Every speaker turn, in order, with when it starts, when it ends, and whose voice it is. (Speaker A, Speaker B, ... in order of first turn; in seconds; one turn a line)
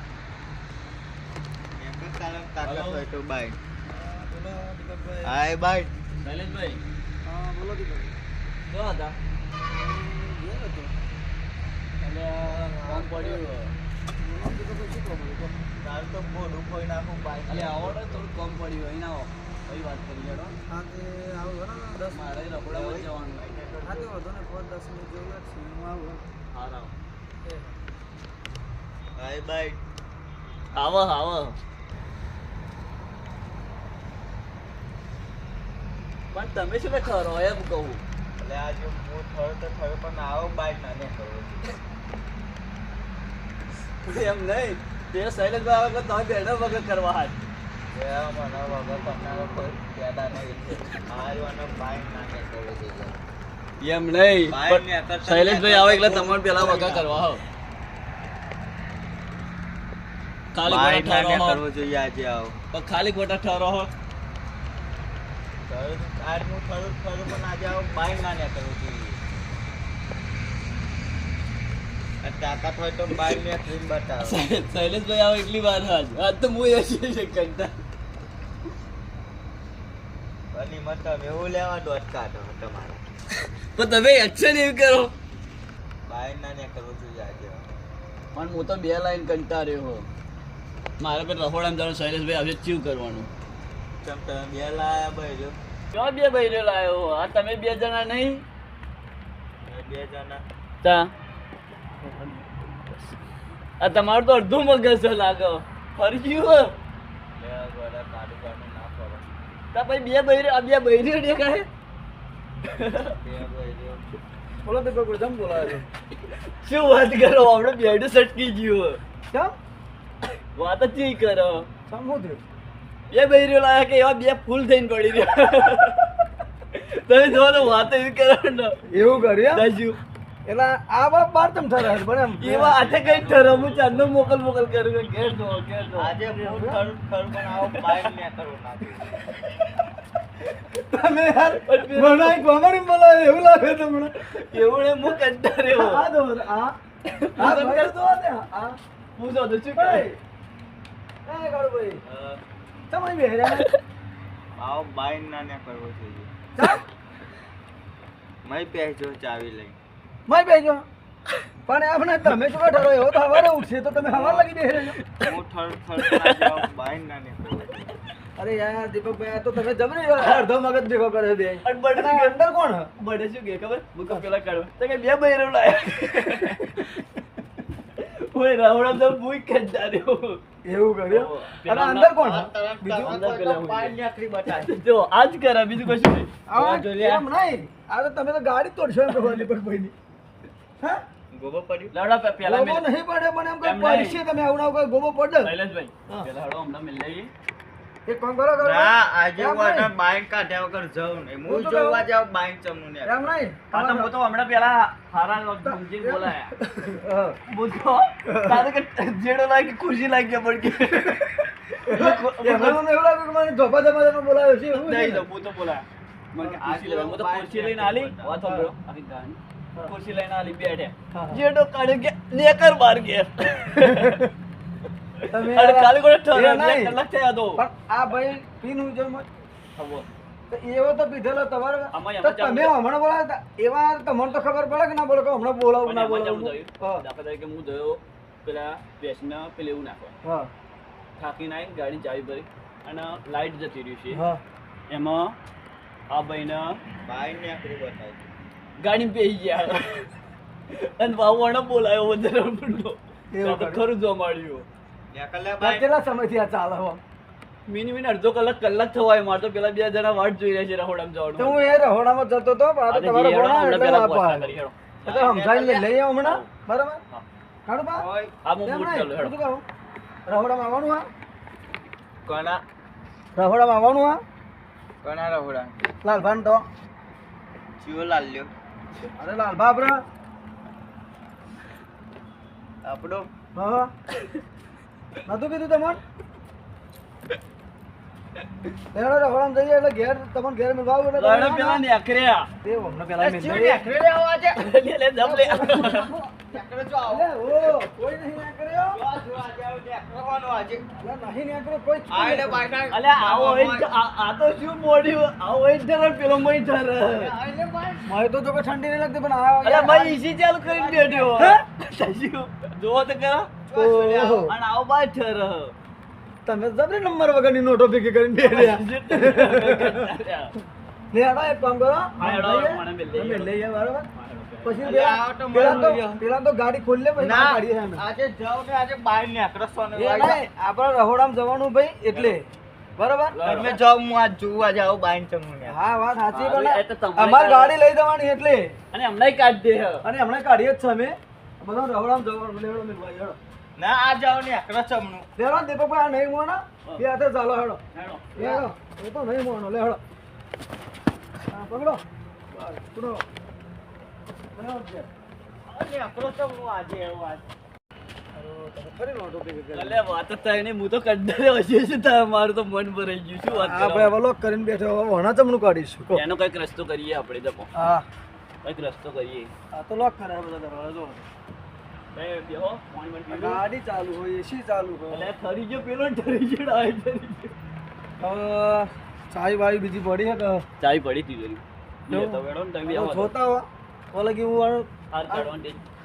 Speaker A: 1.8-3.6
Speaker B: 2.6-3.0
Speaker C: 3.9-5.3
Speaker A: 5.2-6.0
Speaker B: 6.2-6.8
Speaker C: 7.2-8.2
Speaker B: 8.7-9.2
Speaker C: 9.7-10.9
Speaker B: 12.0-13.7
Speaker C: 12.5-13.4
Speaker C: 14.2-15.6
Speaker A: 15.8-18.2
Speaker B: 17.5-20.6
Speaker C: 20.6-22.4
Speaker B: 22.1-23.5
Speaker A: 22.6-24.2
Speaker C: 23.8-26.2
Speaker B: 26.5-26.9
Speaker A: 29.2-29.8
Speaker B: 30.7-31.6
Speaker B: 36.3-38.0
Speaker A: 38.4-41.7
Speaker B: 44.0-47.4
Speaker A: 47.9-53.2
Speaker B: 53.8-57.4
Speaker A: 54.5-57.3
Speaker B: 60.5-61.6
Speaker A: 60.6-62.6
Speaker B: 62.7-63.9
Speaker A: 65.7-69.2
Speaker A: 72.2-74.4
Speaker B: 74.2-77.7
Speaker A: 80.5-83.0
Speaker B: 83.8-85.1
Speaker A: 86.1-87.7
Speaker B: 88.3-90.1
Speaker B: 91.0-93.3
Speaker A: 94.0-95.6
Speaker B: 95.9-98.4
Speaker A: 99.6-100.4
Speaker B: 100.8-101.1
Speaker B: 102.1-103.2
Speaker B: 103.8-106.8
Speaker A: 107.4-109.3
Speaker B: 109.7-111.7
Speaker B: 112.7-113.1
Speaker A: 113.1-114.0
Speaker C: 114.6-115.9
Speaker B: 116.4-119.0
Speaker C: 119.3-119.5
Speaker B: 120.6-121.7
Speaker C: 121.9-122.4
Speaker B: 123.1-126.1
Speaker B: 126.7-130.0
Speaker C: 128.8-129.7
Speaker C: 130.5-132.9
Speaker B: 132.4-136.4
Speaker A: 132.7-134.3
Speaker A: 136.0-139.1
Speaker C: 136.3-136.8
Speaker B: 137.5-138.1
Speaker C: 140.7-144.3
Speaker B: 141.6-142.4
Speaker B: 144.2-146.1
Speaker C: 145.1-146.8
Speaker B: 147.1-148.0
Speaker C: 147.4-148.8
Speaker B: 149.2-150.1
Speaker C: 149.7-150.2
Speaker C: 151.3-152.0
Speaker B: 152.1-152.4
Speaker C: 152.9-153.7
Speaker A: 154.6-156.3
Speaker C: 156.6-156.8
Speaker A: 158.4-159.8
Speaker C: 160.3-160.8
Speaker C: 161.7-165.0
Speaker B: 164.0-165.3
Speaker A: 165.2-168.0
Speaker B: 166.0-166.5
Speaker C: 168.4-172.9
Speaker B: 170.2-170.4
Speaker B: 171.6-172.4
Speaker B: 173.0-177.0
Speaker B: 178.0-180.4
Speaker C: 180.7-183.2
Speaker B: 181.1-182.2
Speaker A: 182.2-184.7
Speaker B: 183.0-184.0
Speaker B: 184.6-186.3
Speaker C: 186.5-189.9
Speaker A: 186.6-187.2
Speaker C: 190.8-191.1
Speaker A: 191.3-191.9
Speaker B: 191.9-192.9
Speaker C: 192.4-195.5
Speaker B: 193.6-194.2
Speaker B: 195.4-197.3
Speaker C: 198.1-199.9
Speaker A: 198.6-203.3
Speaker C: 201.5-202.1
Speaker C: 203.1-204.2
Speaker B: 203.7-206.5
Speaker C: 205.6-207.4
Speaker B: 207.5-212.8
Speaker C: 208.2-208.7
Speaker C: 210.8-215.3
Speaker B: 214.7-224.2
Speaker A: 216.6-218.5
Speaker C: 221.1-221.4
Speaker C: 223.8-224.3
Speaker C: 225.3-229.3
Speaker B: 225.4-227.6
Speaker B: 229.8-230.1
Speaker C: 230.5-237.1
Speaker B: 231.9-232.7
Speaker B: 235.8-240.2
Speaker C: 240.2-240.5
Speaker B: 241.2-244.2
Speaker C: 244.1-244.4
Speaker B: 244.9-245.4
Speaker B: 246.1-246.8
Speaker A: 247.1-248.3
Speaker B: 248.8-250.1
Speaker B: 250.7-254.7
Speaker C: 253.3-253.9
Speaker A: 255.1-255.9
Speaker C: 255.6-257.0
Speaker B: 257.7-261.6
Speaker C: 261.4-264.5
Speaker B: 262.9-265.1
Speaker A: 265.0-265.9
Speaker C: 265.1-267.0
Speaker B: 266.2-266.5
Speaker C: 267.7-268.1
Speaker A: 268.0-268.3
Speaker B: 268.4-269.4
Speaker C: 268.6-269.6
Speaker C: 270.3-271.1
Speaker A: 272.3-272.6
Speaker C: 273.4-274.2
Speaker A: 275.0-275.8
Speaker C: 276.0-276.6
Speaker A: 277.8-278.5
Speaker C: 279.2-280.0
Speaker A: 282.8-283.3
Speaker C: 283.6-283.9
Speaker C: 285.2-286.0
Speaker C: 288.9-291.9
Speaker B: 291.2-292.5
Speaker C: 292.6-293.9
Speaker A: 293.2-294.7
Speaker B: 294.6-296.1
Speaker C: 295.2-296.3
Speaker A: 295.7-297.8
Speaker C: 297.1-299.0
Speaker A: 298.9-300.9
Speaker C: 300.9-302.7
Speaker A: 302.1-303.9
Speaker B: 302.9-307.3
Speaker A: 307.1-308.1
Speaker C: 308.1-311.6
Speaker B: 309.6-313.5
Speaker A: 310.8-311.2
Speaker A: 313.7-314.4
Speaker C: 313.7-314.6
Speaker B: 314.5-315.7
Speaker C: 316.4-320.1
Speaker B: 318.4-320.5
Speaker C: 321.1-324.1
Speaker B: 322.2-324.8
Speaker C: 324.6-328.1
Speaker A: 324.8-326.2
Speaker A: 327.2-330.4
Speaker C: 329.9-332.5
Speaker B: 332.1-332.4
Speaker C: 333.0-333.8
Speaker B: 333.3-333.7
Speaker A: 333.4-335.8
Speaker C: 335.6-338.8
Speaker B: 336.3-337.8
Speaker B: 338.9-340.0
Speaker C: 340.0-343.4
Speaker A: 343.8-345.3
Speaker C: 345.4-347.8
Speaker B: 347.9-348.2
Speaker C: 348.3-350.0
Speaker C: 351.5-353.2
Speaker C: 354.5-355.1
Speaker A: 355.7-357.4
Speaker C: 358.3-360.1
Speaker B: 359.7-364.1
Speaker C: 363.5-366.2
Speaker B: 366.1-367.7
Speaker C: 367.7-368.1
Speaker B: 368.6-369.5
Speaker C: 369.7-371.3
Speaker B: 372.1-373.6
Speaker C: 373.3-375.3
Speaker B: 375.1-377.6
Speaker C: 378.2-380.7
Speaker B: 380.8-383.3
Speaker C: 382.1-385.5
Speaker B: 385.1-385.8